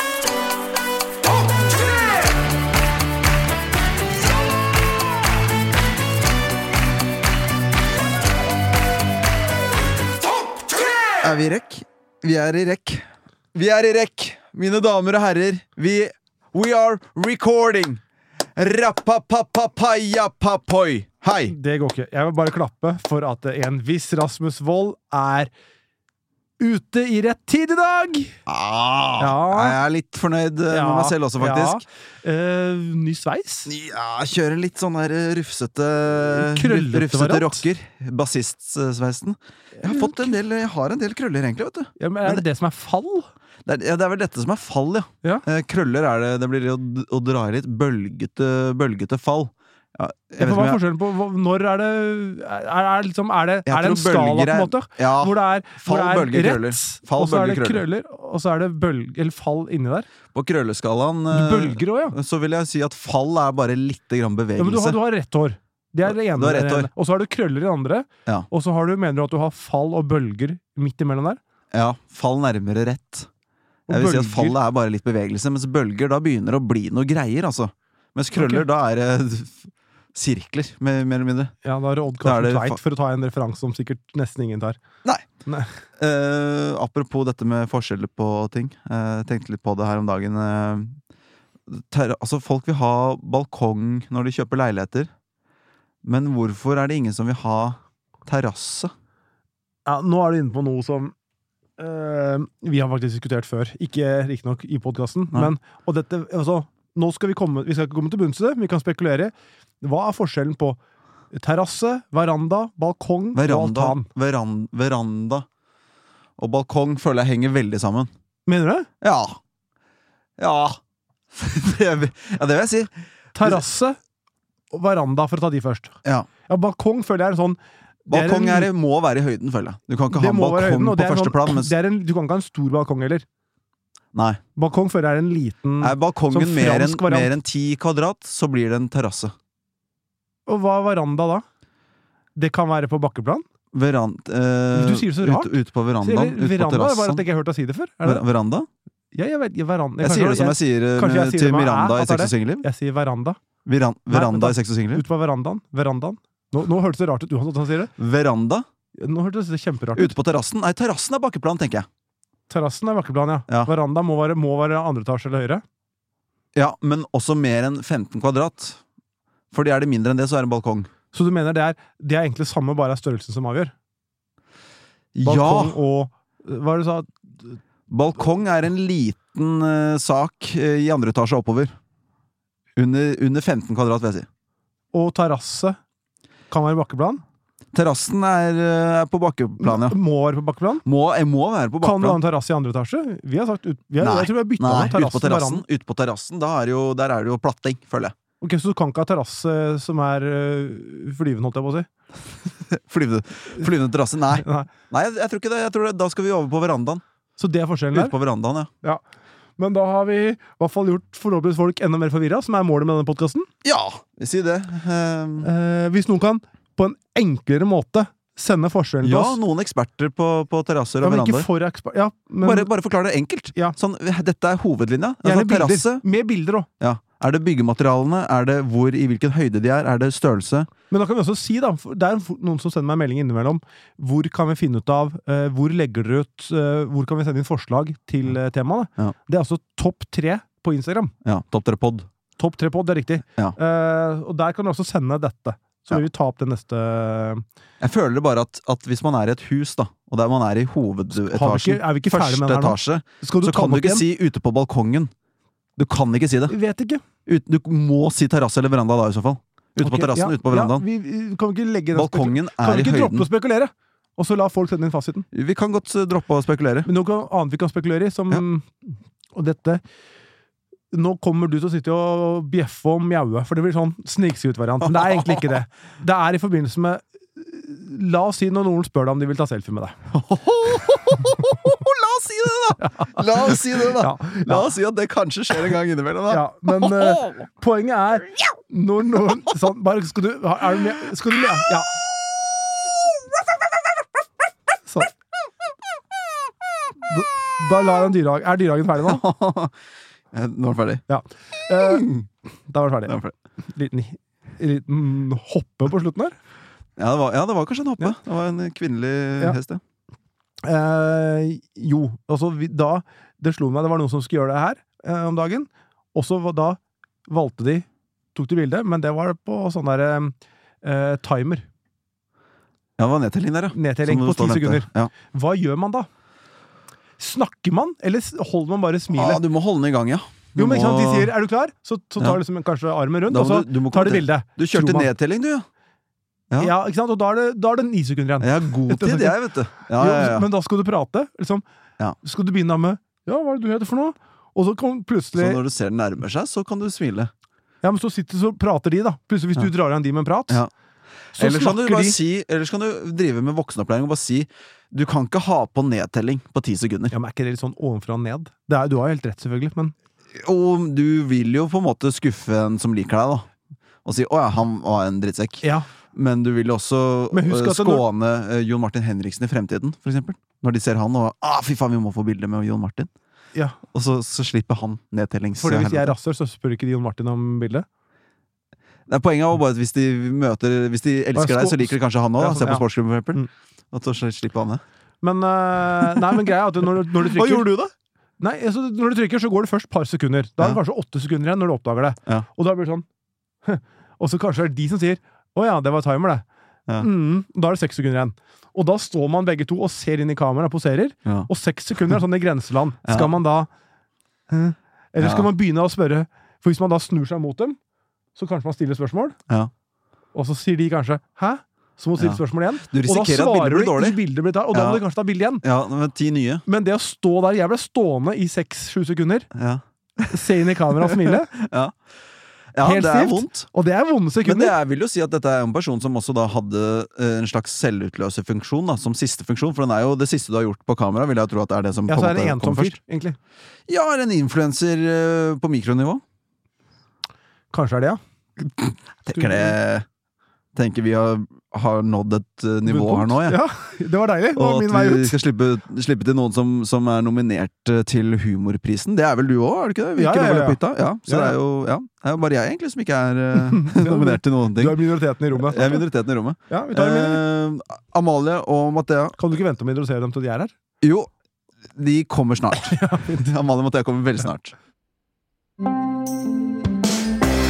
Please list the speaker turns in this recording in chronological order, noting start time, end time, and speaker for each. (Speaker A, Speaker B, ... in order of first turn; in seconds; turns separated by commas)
Speaker A: 11.2-18.0, Speaker A: 18.6-21.5, Speaker B: 21.5-25.5, Speaker B: 26.6-28.4, Speaker A: 28.5-31.8, Speaker B: 29.2-29.8, Speaker B: 30.7-33.7, Speaker A: 33.6-42.4, Speaker B: 36.3-37.6, Speaker B: 39.8-40.3, Speaker B: 42.0-43.3, Speaker A: 43.6-50.8, Speaker B: 50.4-60.1, Speaker A: 53.6-57.8, Speaker A: 60.3-65.0, Speaker B: 61.3-62.1, Speaker B: 64.6-71.4, Speaker A: 66.0-66.9, Speaker A: 71.7-73.3, Speaker B: 73.9-74.6, Speaker A: 73.9-81.5, Speaker B: 78.3-78.6, Speaker B: 81.6-84.8, Speaker A: 82.2-82.8, Speaker A: 86.0-91.0, Speaker A: 91.7-95.1, Speaker A: 96.0-98.9, Speaker B: 99.8-101.1, Speaker B: 101.8-110.8, Speaker B: 111.3-114.1, Speaker A: 113.3-115.5, Speaker A: 116.4-118.1, Speaker B: 118.5-118.9, Speaker A: 119.0-119.4, Speaker A: 120.4-120.8, Speaker A: 121.3-123.6, Speaker B: 123.3-124.0, Speaker B: 124.7-125.9, Speaker B: 126.5-127.6, Speaker A: 128.1-131.7, Speaker B: 128.1-128.7, Speaker B: 130.1-133.2, Speaker A: 134.1-134.4, Speaker B: 134.6-137.3, Speaker A: 135.8-139.3, Speaker B: 140.5-141.4, Speaker B: 142.3-143.4, Speaker A: 143.7-147.2, Speaker B: 144.7-148.2, Speaker A: 148.0-148.7, Speaker B: 149.1-153.4, Speaker A: 150.0-152.6, Speaker A: 153.7-155.0, Speaker B: 154.1-157.9, Speaker A: 158.0-158.7, Speaker B: 159.0-160.1, Speaker A: 159.9-161.8, Speaker B: 162.5-165.6, Speaker A: 166.5-168.8, Speaker A: 169.5-170.9, Speaker B: 171.1-173.7, Speaker A: 175.1-175.8, Speaker B: 175.2-177.6, Speaker A: 177.9-181.7, Speaker A: 182.8-184.3, Speaker B: 184.9-185.8, Speaker B: 186.5-187.2, Speaker A: 187.7-190.0, Speaker B: 189.6-190.8, Speaker A: 190.8-192.2, Speaker B: 191.8-195.6, Speaker A: 194.0-198.1, Speaker B: 198.4-201.9, Speaker A: 202.7-207.0, Speaker B: 204.4-204.7, Speaker B: 207.4-208.1, Speaker A: 207.9-208.7, Speaker B: 209.6-213.5, Speaker A: 213.6-215.5, Speaker B: 215.4-219.4, Speaker A: 219.0-221.5, Speaker B: 221.0-222.7, Speaker A: 222.4-226.0, Speaker B: 225.2-226.7, Speaker A: 226.8-230.7, Speaker B: 230.9-241.1, Speaker A: 241.2-242.1, Speaker B: 242.4-247.4, Speaker A: 247.8-255.1, Speaker B: 251.1-254.1, Speaker A: 255.8-256.5, Speaker B: 256.5-257.0, Speaker A: 257.2-260.8, Speaker B: 259.8-265.2, Speaker A: 261.9-263.3, Speaker A: 265.3-266.9, Speaker B: 266.8-268.7, Speaker B: 269.3-269.8, Speaker B: 270.9-279.9, Speaker A: 274.9-275.4, Speaker A: 280.1-287.4, Speaker B: 282.8-284.7, Speaker B: 286.3-291.9, Speaker B: 297.1-299.2, Speaker A: 299.0-299.7, Speaker A: 300.3-301.0, Speaker B: 301.1-302.1, Speaker A: 301.8-302.2, Speaker B: 302.7-303.2, Speaker A: 303.1-303.3, Speaker B: 303.7-306.3, Speaker A: 307.0-309.8, Speaker B: 310.6-321.6, Speaker A: 323.0-325.1, Speaker B: 323.7-326.1, Speaker B: 327.2-329.4, Speaker A: 329.1-331.3, Speaker B: 330.6-335.1, Speaker A: 333.3-335.7, Speaker B: 336.6-339.4, Speaker A: 338.4-340.5, Speaker B: 340.0-341.6, Speaker B: 342.2-345.6, Speaker A: 345.4-347.3, Speaker B: 347.8-350.6, Speaker B: 351.4-352.2, Speaker A: 351.4-357.1, Speaker B: 357.1-359.9, Speaker A: 360.3-363.5, Speaker A: 364.0-373.1, Speaker B: 367.3-368.0, Speaker A: 373.9-376.1, Speaker B: 375.6-377.9, Speaker A: 379.1-384.8, Speaker B: 381.4-383.5, Speaker B: 385.2-387.7, Speaker A: 387.2-387.9, Speaker B: 388.4-393.1, Speaker B: 393.6-396.4, Speaker B: 397.0-403.7, Speaker A: 403.0-403.3, Speaker B: 404.5-407.8, Speaker A: 405.2-405.5, Speaker B: 408.4-409.4, Speaker B: 410.3-415.6, Speaker A: 412.2-414.2, Speaker A: 414.7-415.0, Speaker A: 415.6-416.6, Speaker B: 416.7-419.5, Speaker A: 419.5-420.4, Speaker B: 420.3-421.5, Speaker A: 420.9-421.9, Speaker A: 422.7-423.7, Speaker B: 422.8-424.7, Speaker A: 424.4-433.0, Speaker B: 432.1-433.4, Speaker A: 433.9-436.2, Speaker B: 437.7-438.2, Speaker A: 438.6-440.1, Speaker B: 439.3-439.8, Speaker A: 440.7-443.6, Speaker B: 442.8-445.4, Speaker A: 444.5-455.0, Speaker B: 450.1-451.6, Speaker B: 453.5-456.1, Speaker A: 455.5-459.4, Speaker B: 456.7-457.4, Speaker B: 459.4-460.7, Speaker A: 461.0-461.3, Speaker A: 461.9-464.7, Speaker B: 462.8-463.4